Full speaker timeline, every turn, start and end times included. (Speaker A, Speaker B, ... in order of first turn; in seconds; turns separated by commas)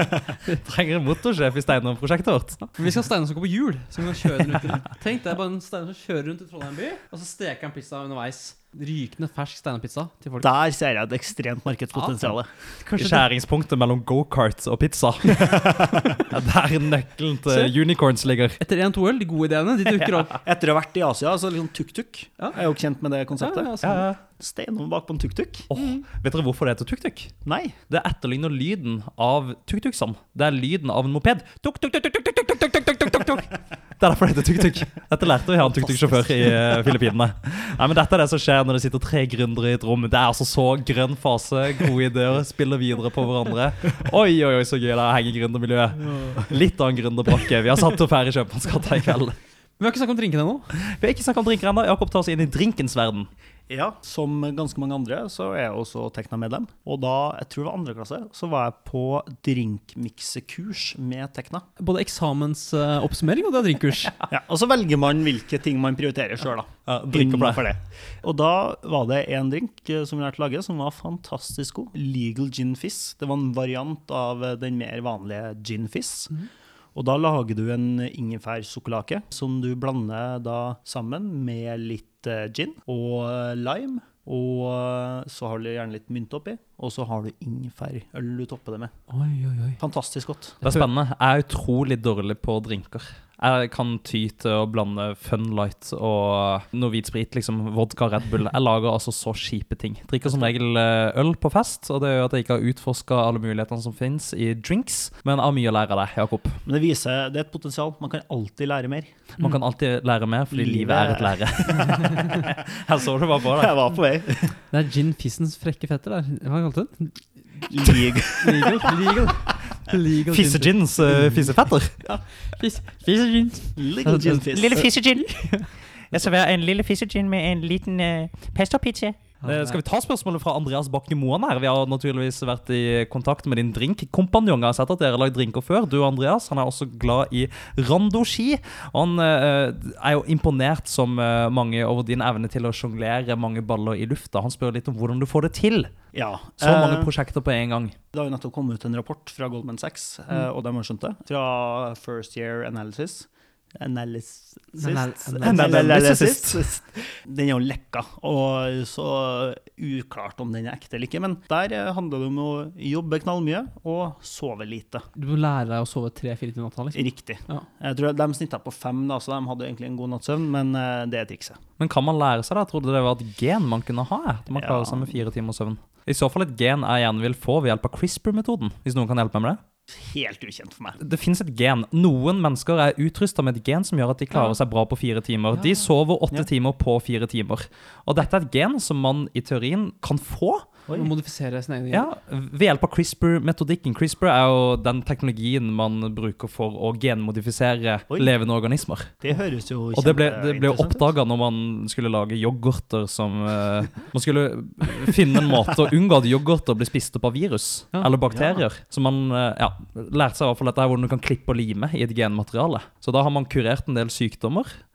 Speaker A: 0.5-2.7, Speaker B: 2.7-10.5, Speaker C: 10.4-12.5, Speaker B: 11.9-13.2, Speaker A: 12.9-18.6, Speaker C: 15.4-16.1, Speaker B: 18.6-20.4, Speaker C: 20.3-25.7, Speaker B: 23.4-24.1, Speaker A: 23.8-24.2, Speaker A: 25.7-27.3, Speaker B: 25.8-26.0, Speaker C: 27.4-27.8, Speaker A: 27.9-49.4, Speaker C: 35.6-36.9, Speaker B: 49.8-50.7, Speaker A: 50.7-53.3, Speaker C: 53.7-61.6, Speaker B: 61.8-64.1, Speaker C: 64.3-76.3, Speaker A: 66.9-67.7, Speaker C: 76.9-88.9, Speaker B: 89.1-89.8, Speaker C: 89.8-90.6, Speaker A: 90.6-106.6, Speaker C: 100.2-100.5, Speaker C: 106.6-109.1, Speaker A: 109.4-113.8, Speaker C: 110.5-112.5, Speaker C: 113.4-114.6, Speaker B: 114.7-121.4, Speaker C: 117.7-119.4, Speaker A: 120.2-122.0, Speaker B: 122.0-125.7, Speaker C: 123.8-124.8, Speaker A: 124.2-125.5, Speaker A: 126.1-145.9, Speaker B: 129.4-129.8, Speaker C: 146.1-147.1, Speaker A: 146.6-147.9, Speaker C: 148.1-165.1, Speaker B: 154.7-155.8, Speaker A: 155.4-156.7, Speaker B: 165.2-167.7, Speaker C: 166.9-171.6, Speaker A: 171.8-179.6, Speaker C: 174.5-175.3, Speaker C: 179.9-181.0, Speaker A: 181.0-190.7, Speaker B: 190.9-192.1, Speaker A: 191.9-199.1, Speaker C: 199.2-201.1, Speaker A: 199.9-214.8, Speaker C: 208.3-208.6